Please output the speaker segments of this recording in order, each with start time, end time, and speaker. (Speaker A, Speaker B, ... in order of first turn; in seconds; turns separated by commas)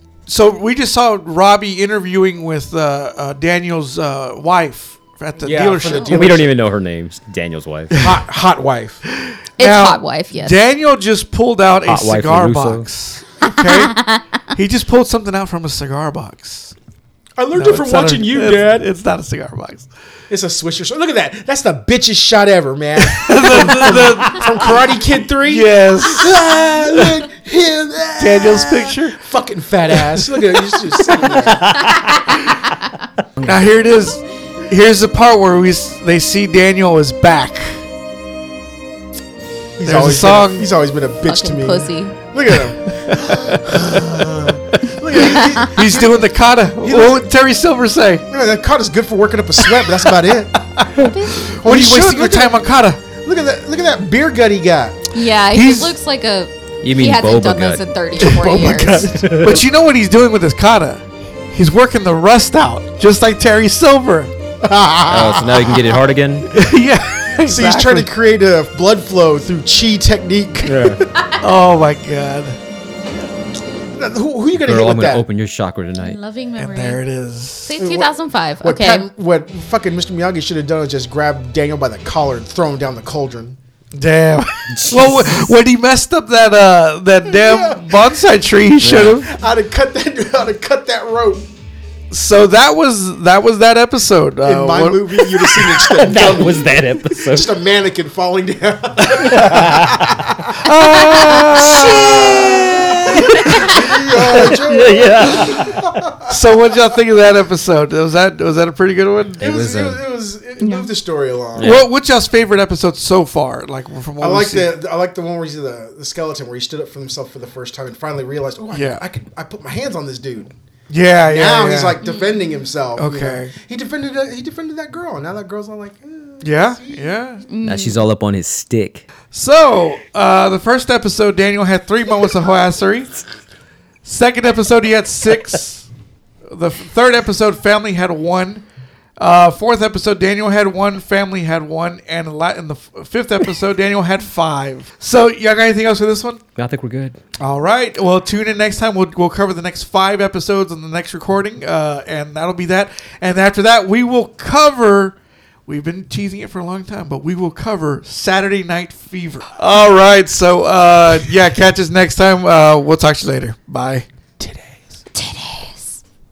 Speaker A: 0.3-6.4, Speaker B: 5.4-6.5, Speaker C: 6.1-8.0, Speaker A: 7.9-8.2, Speaker B: 8.0-9.0, Speaker A: 9.1-14.0, Speaker D: 9.6-10.6, Speaker C: 11.9-12.9, Speaker D: 13.5-14.2, Speaker A: 14.5-16.7, Speaker B: 17.4-18.9, Speaker A: 17.5-19.9, Speaker B: 20.3-31.8, Speaker A: 23.1-26.4, Speaker A: 28.2-29.2, Speaker A: 29.9-31.1, Speaker C: 31.4-32.3, Speaker A: 33.4-37.8, Speaker B: 39.8-46.3, Speaker A: 39.8-40.7, Speaker D: 41.3-42.2, Speaker A: 42.9-44.2, Speaker A: 45.1-48.3, Speaker D: 45.2-45.6, Speaker B: 46.8-47.3, Speaker B: 48.3-50.6, Speaker A: 49.7-50.0, Speaker A: 50.7-53.0, Speaker D: 51.0-51.5, Speaker B: 51.5-55.0, Speaker D: 55.1-59.1, Speaker A: 55.5-56.0, Speaker C: 56.8-57.8, Speaker B: 58.2-59.2, Speaker A: 58.2-61.0, Speaker C: 59.1-59.6, Speaker A: 61.5-64.3, Speaker B: 64.6-66.0, Speaker C: 65.1-66.5, Speaker A: 66.5-68.1, Speaker B: 67.4-71.1, Speaker C: 70.6-71.0, Speaker A: 71.4-72.6, Speaker B: 74.0-75.3, Speaker C: 74.6-76.2, Speaker D: 76.0-77.0, Speaker A: 76.6-77.8, Speaker D: 77.7-79.1, Speaker B: 77.8-83.6, Speaker A: 84.0-89.3, Speaker C: 84.7-85.5, Speaker B: 87.3-87.9, Speaker C: 88.8-89.2, Speaker B: 89.2-91.5, Speaker A: 92.1-96.5, Speaker B: 94.4-100.5, Speaker C: 96.0-97.5, Speaker C: 99.2-100.1, Speaker A: 99.2-99.5, Speaker A: 100.5-104.5, Speaker D: 100.8-103.8, Speaker C: 101.5-105.8, Speaker B: 103.5-106.3, Speaker A: 105.2-105.7, Speaker A: 106.3-109.4, Speaker B: 109.4-111.8, Speaker C: 109.4-110.0, Speaker D: 110.6-110.9, Speaker C: 111.5-111.8, Speaker A: 111.6-114.7, Speaker B: 114.2-120.5, Speaker A: 118.7-119.0, Speaker A: 120.9-122.0, Speaker B: 121.2-127.0, Speaker A: 123.0-123.5, Speaker A: 126.4-127.5, Speaker D: 127.5-128.0, Speaker C: 127.6-129.1, Speaker A: 129.3-133.2, Speaker A: 134.1-135.9, Speaker A: 136.5-138.6, Speaker A: 139.2-146.4, Speaker C: 146.6-147.2, Speaker A: 147.4-155.2, Speaker A: 155.7-164.1, Speaker B: 164.4-165.0, Speaker D: 165.1-166.0